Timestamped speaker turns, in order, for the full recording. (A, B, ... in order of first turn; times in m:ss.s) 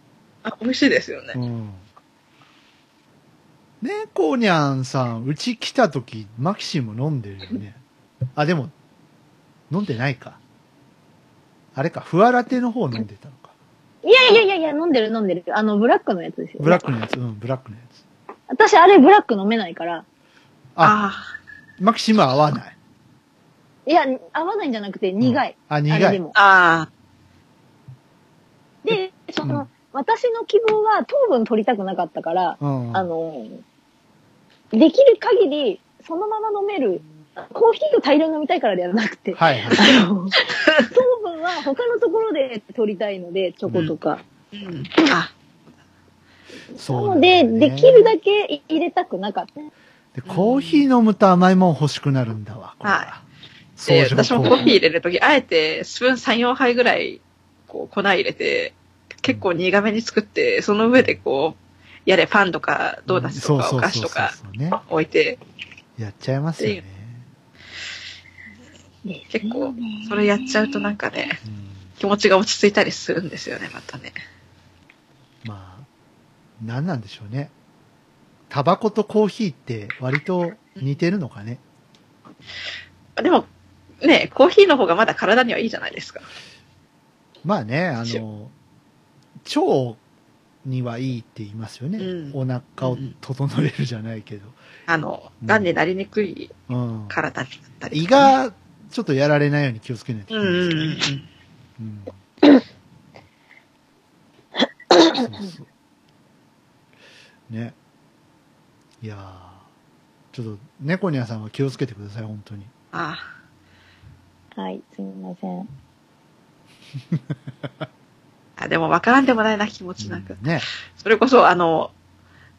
0:00.4-0:01.4 A
0:01.3-0:01.8 B
0:03.8-0:07.8 B
0:08.4-0:08.7 B
0:09.7-0:10.4 B
0:11.7-0:13.5 B
0:14.0-0:16.8 C
0:16.6-0:18.0 B
0:18.5-0:20.0 C
0:20.8-0:21.3 A
0:21.8-0:22.7 B
0:23.8-0:26.3 C
0:25.2-0:26.2 B
0:26.3-0:26.9 A
0:28.8-0:33.6 C
0:32.6-0:33.1 B
0:34.7-0:44.2 C
0:39.3-0:39.9 B
0:44.5-0:45.3 A
0:46.8-0:49.7 C
0:46.8-0:48.1 B
0:50.1-0:53.2 B
0:50.2-0:50.8 A
0:52.8-0:53.1 A
0:53.8-0:54.7 B
0:53.8-1:05.4 A
1:03.1-1:04.8 B
1:06.0-1:07.2 B
1:09.0-1:10.9 C
1:09.3-1:11.4 A
1:11.4-1:11.9 B
1:12.0-1:14.2 A
1:15.4-1:15.9 B
1:16.6-1:17.5 B
1:18.5-1:21.6 B
1:23.2-1:23.5 A
1:24.0-1:26.2 A
1:27.4-1:28.5 B
1:29.4-1:30.0 B
1:30.6-1:34.6 B
1:32.0-1:33.1 A
1:34.9-1:36.5 A
1:35.4-1:35.7 B
1:36.7-1:37.2 B
1:37.1-1:38.3 A
1:37.9-1:41.0 B
1:40.3-1:41.3 A
1:41.8-1:42.1 B
1:45.1-1:45.7 B
1:47.5-1:47.8 B
1:49.0-1:49.6 B
1:50.3-1:52.7 B
1:52.9-1:53.3 A
1:54.6-1:55.7 C
1:58.6-2:01.9 A
2:00.0-2:00.7 B